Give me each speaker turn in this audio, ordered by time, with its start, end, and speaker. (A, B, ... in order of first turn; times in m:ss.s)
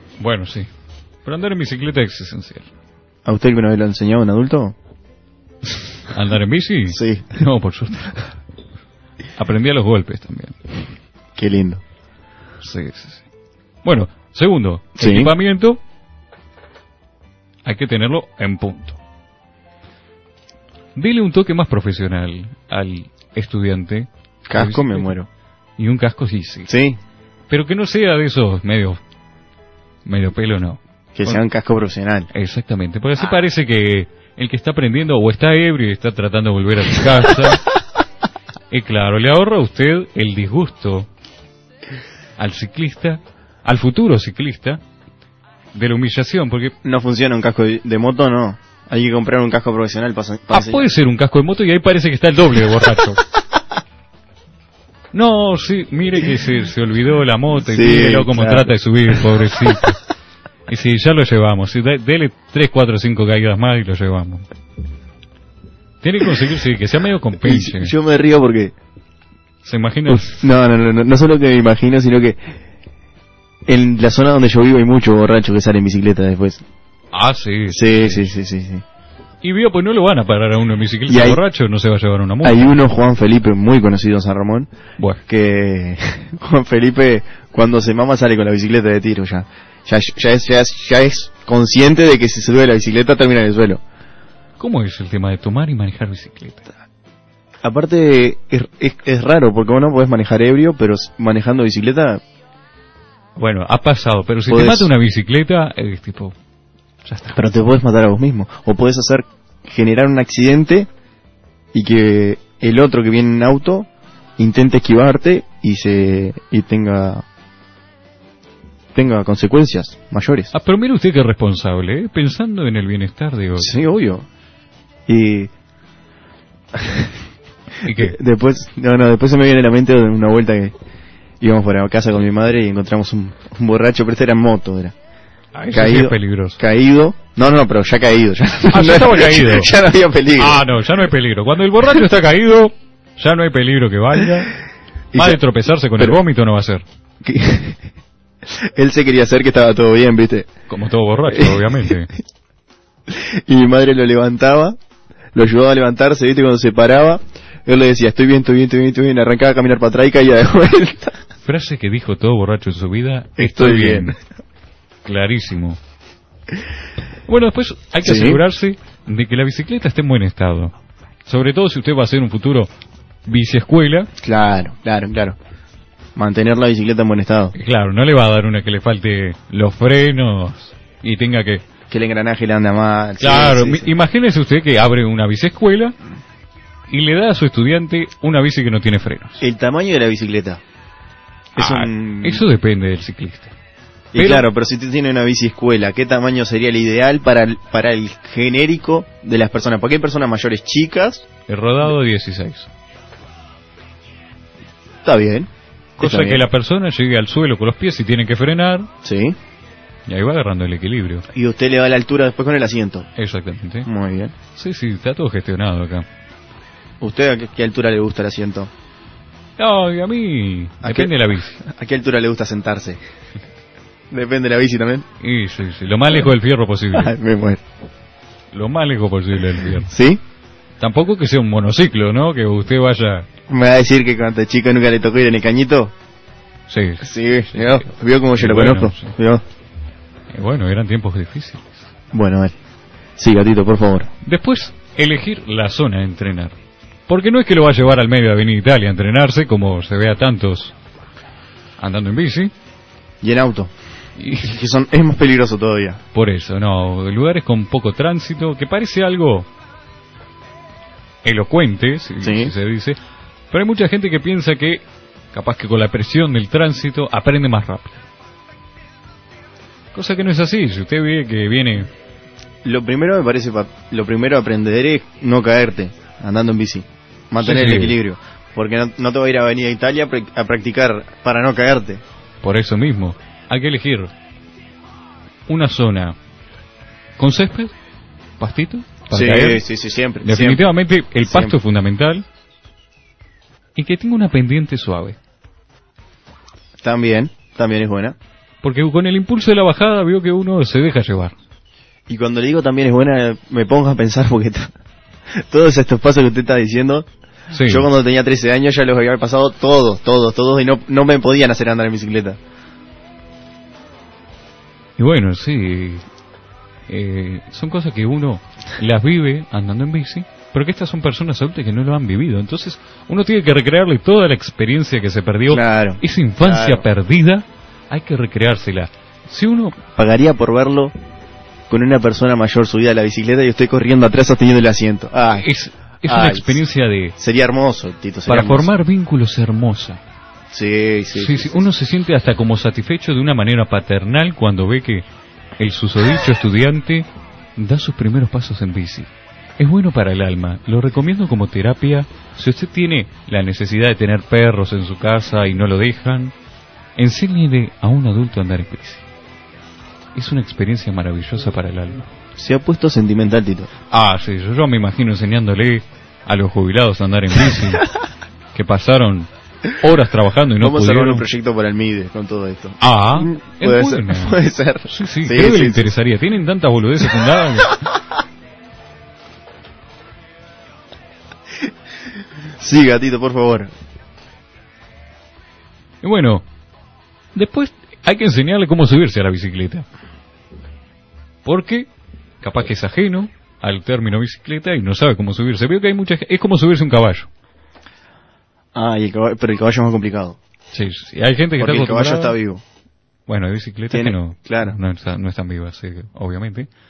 0:00.2-0:00.7 A
0:01.2-0:02.7 A
0:03.2-0:04.8 B
0:06.1-0:08.3 A
0:06.9-0:07.4 B
0:09.4-0:10.6 A
0:11.4-0:11.8 B
0:12.6-0:13.2 A
0:13.8-0:15.8 A
0:15.0-0:15.3 B
0:17.6-0:19.0 A
0:21.0-0:25.1 A
0:24.5-0:25.3 B
0:25.8-0:26.7 A
0:26.7-0:27.0 B
0:27.5-0:29.0 A
0:30.0-0:31.4 A
0:31.2-0:32.3 B
0:32.3-0:37.7 A
0:38.7-0:41.1 A
0:42.4-0:44.8 A
0:45.7-0:46.8 A
0:46.8-0:50.9 B
0:50.5-0:53.2 A
0:55.1-1:00.0 A
0:57.6-0:59.3 B
1:00.7-1:04.4 A
1:06.0-1:07.9 A
1:07.4-1:08.7 B
1:09.6-1:10.5 A
1:10.1-1:12.6 B
1:13.7-1:16.6 B
1:17.1-1:18.3 A
1:17.7-1:18.8 B
1:19.4-1:22.8 A
1:21.1-1:21.4 B
1:22.4-1:24.7 B
1:25.3-1:33.8 B
1:34.6-1:36.7 A
1:37.6-1:42.2 B
1:43.4-1:46.4 A
1:44.5-1:44.9 B
1:47.0-1:47.4 A
1:47.3-1:50.9 B
1:51.7-1:57.2 B
1:58.9-2:00.5 B
2:00.5-2:03.7 A
2:03.6-2:04.3 B
2:05.1-2:05.5 B
2:06.7-2:07.2 B
2:07.8-2:08.2 A
2:07.9-2:10.8 B
2:11.4-2:14.9 B
2:15.5-2:16.6 A
2:15.7-2:20.7 B
2:18.7-2:19.7 A
2:20.4-2:24.6 A
2:25.1-2:25.4 B
2:25.2-2:26.8 A
2:27.2-2:27.8 B
2:28.5-2:30.5 B
2:30.7-2:32.1 A
2:31.3-2:31.6 B
2:33.1-2:34.8 B
2:35.3-2:41.2 B
2:41.4-2:44.2 A
2:43.4-2:44.2 B
2:45.0-2:45.8 A
2:47.3-2:50.7 A
2:48.0-2:48.4 B
2:51.3-2:52.7 A
2:53.3-2:54.1 A
2:54.2-2:55.4 B
2:56.2-2:57.5 B
2:57.6-3:01.7 A
3:01.9-3:03.9 B
3:03.2-3:06.0 A
3:06.9-3:09.4 A
3:09.4-3:10.6 B
3:11.6-3:12.4 B
3:11.6-3:13.5 A
3:14.1-3:21.3 B
3:14.2-3:14.5 A
3:21.5-3:22.7 A
3:25.0-3:26.5 B
3:26.0-3:28.9 A
3:29.0-3:29.4 B
3:30.1-3:31.3 A
3:31.3-3:33.1 B
3:33.2-3:33.9 A
3:33.8-3:34.4 B
3:34.5-3:36.1 A
3:37.0-3:38.7 B
3:39.6-3:41.6 A
3:40.8-3:43.0 B
3:44.1-3:45.1 B
3:45.2-3:47.1 A
3:46.9-3:47.6 B
3:48.5-3:49.9 A
3:49.8-3:50.2 B
3:50.8-3:53.3 A
3:53.5-3:55.9 B
3:56.7-3:59.2 A
3:57.0-3:59.4 B
4:00.3-4:01.8 A
4:02.1-4:02.6 B
4:03.2-4:04.1 B
4:04.2-4:06.6 A
4:07.1-4:10.7 A
4:11.8-4:12.5 A
4:13.2-4:13.7 B
4:14.2-4:14.5 A
4:14.4-4:16.0 B
4:16.1-4:19.5 A
4:21.2-4:23.0 A
4:22.2-4:22.5 B
4:23.5-4:28.0 A
4:29.9-4:31.9 A
4:32.6-4:42.0 B
4:37.4-4:38.0 A
4:42.4-4:44.1 A
4:45.5-4:46.2 A
4:47.2-4:47.7 A
4:48.4-4:49.6 A
4:49.1-4:50.7 B
4:50.2-4:52.2 A
4:51.2-4:51.6 B
4:53.8-4:55.2 A
4:56.8-4:58.2 B
4:58.6-5:01.4 A
5:02.1-5:04.7 B
5:05.3-5:07.1 B
5:07.5-5:07.9 A
5:07.6-5:12.4 B
5:15.0-5:16.1 A
5:16.9-5:29.8 A
5:25.5-5:26.8 B
5:29.9-5:31.0 B
5:31.7-5:35.5 B
5:35.4-5:37.2 A
5:36.1-5:36.6 B
5:37.2-5:38.7 B
5:38.3-5:40.0 A
5:40.5-5:41.5 B
5:41.2-5:45.0 A
5:45.6-5:56.3 A
5:57.0-5:59.1 A
6:00.2-6:02.1 A
6:02.4-6:03.7 B
6:03.9-6:07.9 A
6:08.5-6:11.3 A
6:10.6-6:15.9 B
6:12.8-6:17.8 A
6:22.6-6:23.7 B
6:26.0-6:26.5 A
6:27.3-6:29.9 A
6:31.4-6:31.9 A
6:32.4-6:37.3 A
6:38.8-6:40.4 B
6:40.7-6:42.4 A
6:41.6-6:42.6 B
6:43.3-6:46.7 A
6:43.9-6:44.8 B